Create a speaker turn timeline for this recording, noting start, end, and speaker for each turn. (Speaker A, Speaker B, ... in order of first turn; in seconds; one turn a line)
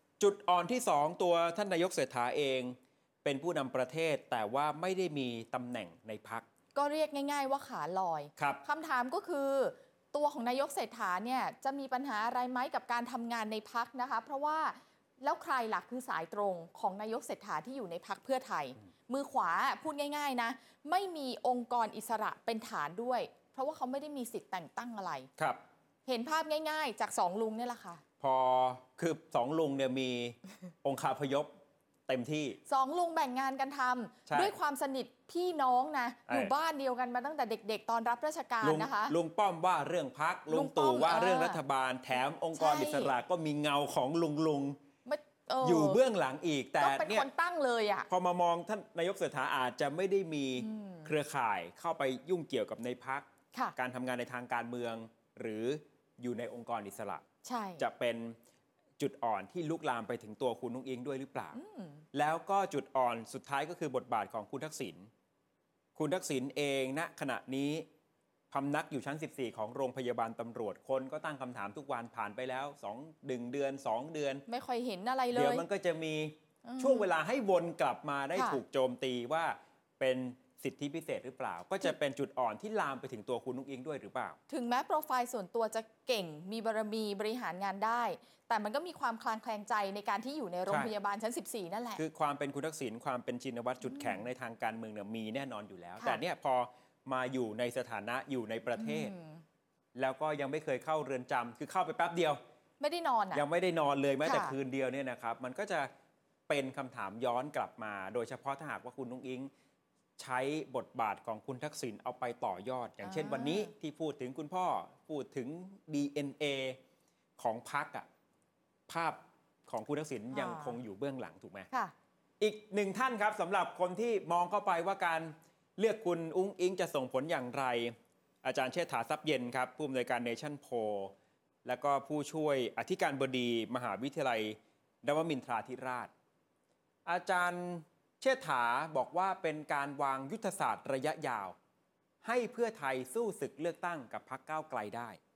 Speaker A: 0.2-6.5
Speaker B: 6.7-25.3
Speaker A: 8.4-8.6
Speaker B: 26.1-28.0
Speaker A: 28.2-31.5
Speaker A: 32.1-32.6
Speaker B: 32.7-39.1
Speaker A: 34.3-34.5
Speaker A: 38.6-44.8
Speaker B: 40.5-41.6
Speaker B: 42.5-43.1
Speaker B: 45.0-46.0
Speaker A: 45.6-47.3
Speaker B: 46.8-48.1
Speaker A: 48.1-57.2
Speaker B: 50.6-51.1
Speaker B: 57.4-57.8
Speaker A: 57.8-58.4
Speaker A: 59.0-61.6
Speaker B: 61.5-62.0
Speaker A: 62.1-65.1
Speaker A: 65.9-67.8
Speaker A: 68.5-74.4
Speaker B: 74.5-75.6
Speaker A: 75.3-84.4
Speaker B: 76.6-77.1
Speaker B: 78.3-78.6
Speaker B: 84.5-92.0
Speaker A: 92.0-99.1
Speaker B: 93.9-94.2
Speaker B: 98.8-99.4
Speaker A: 99.9-102.4
Speaker B: 102.8-103.4
Speaker A: 103.3-105.9
Speaker B: 104.2-104.5
Speaker A: 106.5-109.5
Speaker A: 110.2-116.8
Speaker B: 113.0-113.7
Speaker A: 117.4-118.1
Speaker A: 118.9-121.7
Speaker B: 120.3-120.7
Speaker A: 122.4-131.1
Speaker A: 131.6-136.1
Speaker A: 137.1-141.6
Speaker A: 142.2-145.2